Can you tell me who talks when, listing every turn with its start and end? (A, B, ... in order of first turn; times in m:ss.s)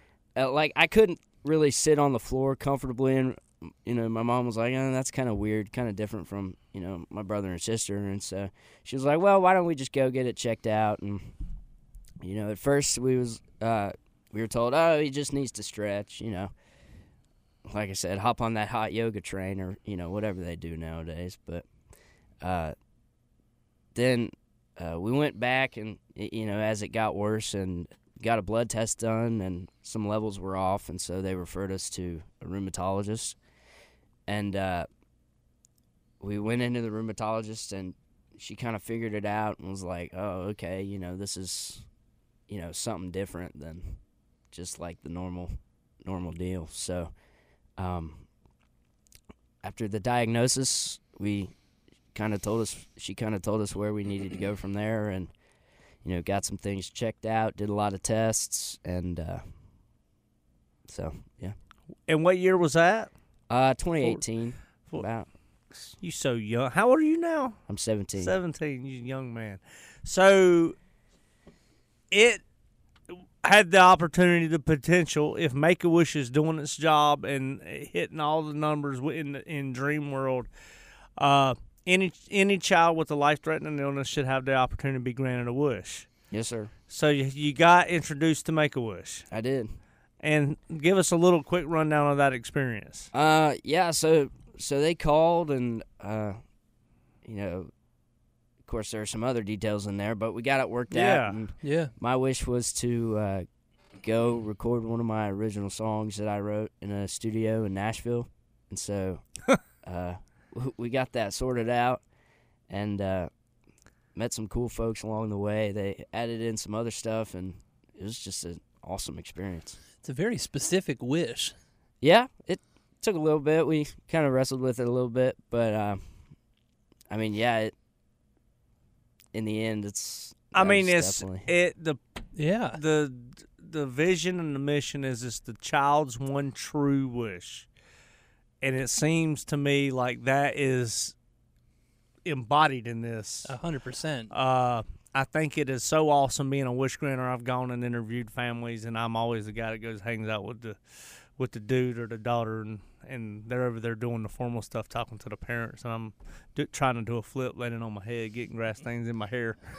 0:00.4-0:11.3 A
0:12.2-0:16.5 A
0:17.6-0:21.6 A
0:22.4-0:22.7 A
0:23.9-0:33.4 A
0:34.3-0:34.9 A
0:36.2-0:41.8 A
0:42.5-0:44.0 A
0:44.5-0:47.1 A
0:47.8-0:48.2 A
0:49.6-0:51.5 A
0:52.1-0:55.3 A
0:56.0-0:59.4 A
1:00.8-1:01.5 A
1:02.1-1:03.1 B
1:03.5-1:05.9 A
1:06.0-1:07.6 B
1:07.7-1:08.4 A
1:08.2-1:10.7 B
1:12.1-1:12.4 B
1:13.4-1:20.5 B
1:21.2-1:26.1 B
1:26.3-1:26.7 A
1:26.9-1:29.3 B
1:29.3-1:29.7 A
1:30.2-1:33.1 B
1:33.1-1:36.4 A
1:37.2-1:37.7 A
1:38.6-1:43.4 A
1:40.9-1:41.4 B
1:41.6-1:41.9 C
1:44.0-1:49.2 A
1:49.8-1:52.0 A
1:52.7-1:53.3 A
1:54.1-1:59.8 A
2:00.0-2:01.5 C
2:02.0-2:06.0 A
2:07.1-2:07.7 A
2:09.3-2:11.5 A
2:10.5-2:12.0 B
2:12.3-2:12.8 C
2:12.7-2:17.7 B
2:18.6-2:21.1 B
2:22.2-2:23.5 B
2:23.4-2:24.3 C
2:24.3-2:30.8 B
2:31.4-2:39.6 B